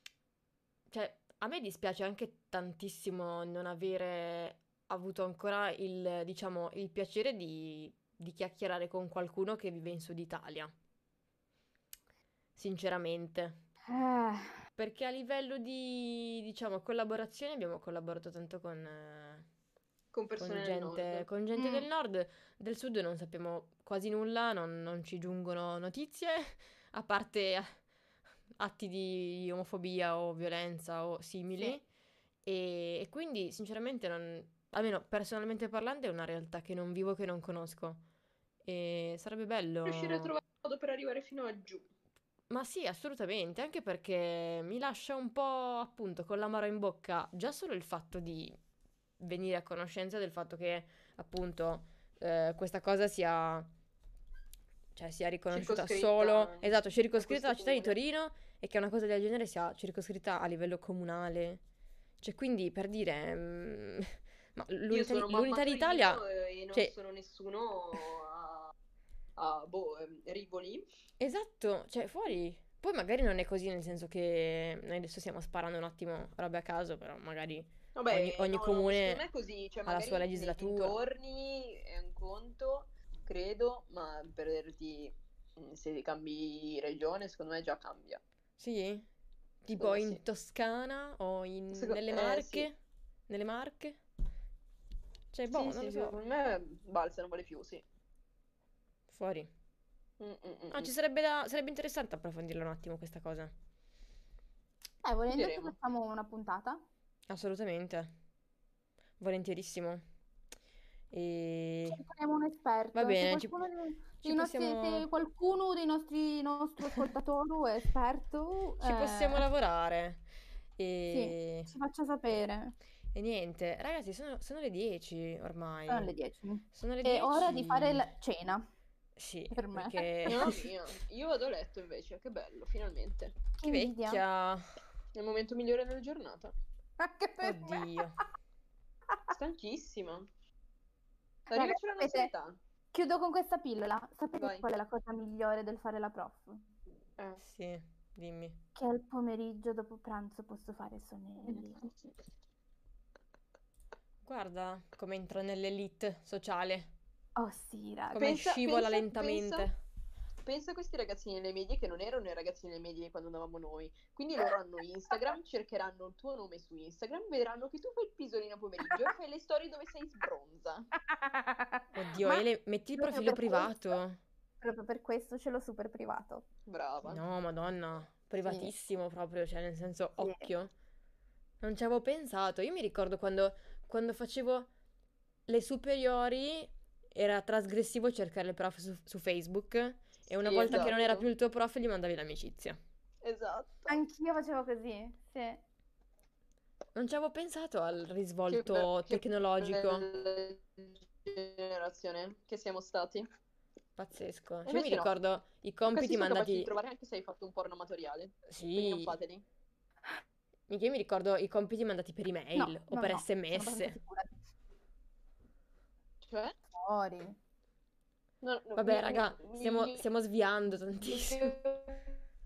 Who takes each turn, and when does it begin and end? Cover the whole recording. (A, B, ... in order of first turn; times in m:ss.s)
0:00.9-0:10.7 A
0:12.6-0:13.6 A
0:13.9-0:14.6 B
0:14.8-0:19.5 A
0:20.1-0:21.3 C
0:20.4-0:27.7 A
0:21.5-0:21.9 B
0:28.6-0:31.8 A
0:32.4-0:38.0 A
0:38.6-0:40.3 A
0:39.8-0:41.9 C
0:42.5-0:48.6 A
0:49.2-0:53.7 A
0:54.9-1:01.6 A
0:55.5-0:58.0 C
1:02.2-1:06.9 A
1:04.9-1:08.7 C
1:09.4-1:10.8 C
1:11.2-1:19.2 A
1:18.0-1:28.2 C
1:19.9-1:21.0 A
1:28.6-1:29.1 A
1:29.6-1:32.8 A
1:29.7-1:30.2 C
1:31.7-1:32.7 C
1:33.3-1:34.0 A
1:35.3-1:36.2 A
1:35.5-1:37.8 C
1:39.1-1:39.5 A
1:40.2-1:40.9 C
1:40.7-1:43.5 A
1:45.0-1:46.8 B
1:45.3-1:45.8 C
1:47.3-1:48.1 A
1:49.2-1:50.0 A
1:51.1-1:52.0 A
1:51.9-1:59.4 B
1:52.9-1:53.6 A
1:54.2-1:55.1 A
1:56.8-1:57.1 A
1:58.8-2:00.2 A
2:00.8-2:01.7 A
2:01.1-2:02.8 B
2:03.1-2:06.1 A
2:05.9-2:08.6 B
2:06.7-2:08.1 A
2:09.2-2:10.6 A
2:09.5-2:10.6 B
2:10.3-2:13.4 C
2:13.6-2:14.2 B
2:13.6-2:14.8 A
2:15.1-2:16.5 C
2:17.0-2:18.1 B
2:17.4-2:18.2 A
2:19.3-2:20.3 C
2:21.5-2:22.3 B
2:21.5-2:22.6 C
2:22.9-2:26.6 B
2:24.4-2:24.7 C
2:27.4-2:28.6 A
2:28.8-2:31.9 B
2:31.4-2:31.7 C
2:34.2-2:36.9 A
2:37.4-2:38.4 B
2:38.1-2:39.8 A
2:38.2-2:39.7 C
2:40.4-2:50.9 C
2:51.0-2:54.0 B
2:51.9-2:54.2 A
2:54.6-2:56.4 B
2:56.7-2:57.2 C
2:57.0-3:00.7 A
2:58.4-2:58.7 B
3:00.2-3:00.5 B
3:01.6-3:04.7 A
3:05.5-3:12.8 A
3:10.4-3:11.3 C
3:13.2-3:14.0 C
3:13.9-3:15.6 B
3:17.0-3:20.0 A
3:18.5-3:23.3 C
3:24.0-3:26.7 A
3:24.7-3:25.1 C
3:25.9-3:29.4 C
3:28.5-3:29.1 A
3:30.7-3:34.0 A
3:32.6-3:34.4 B
3:36.2-3:36.6 C
3:36.7-3:37.4 B
3:38.4-3:40.0 C
3:38.8-3:41.6 A
3:41.0-3:42.1 C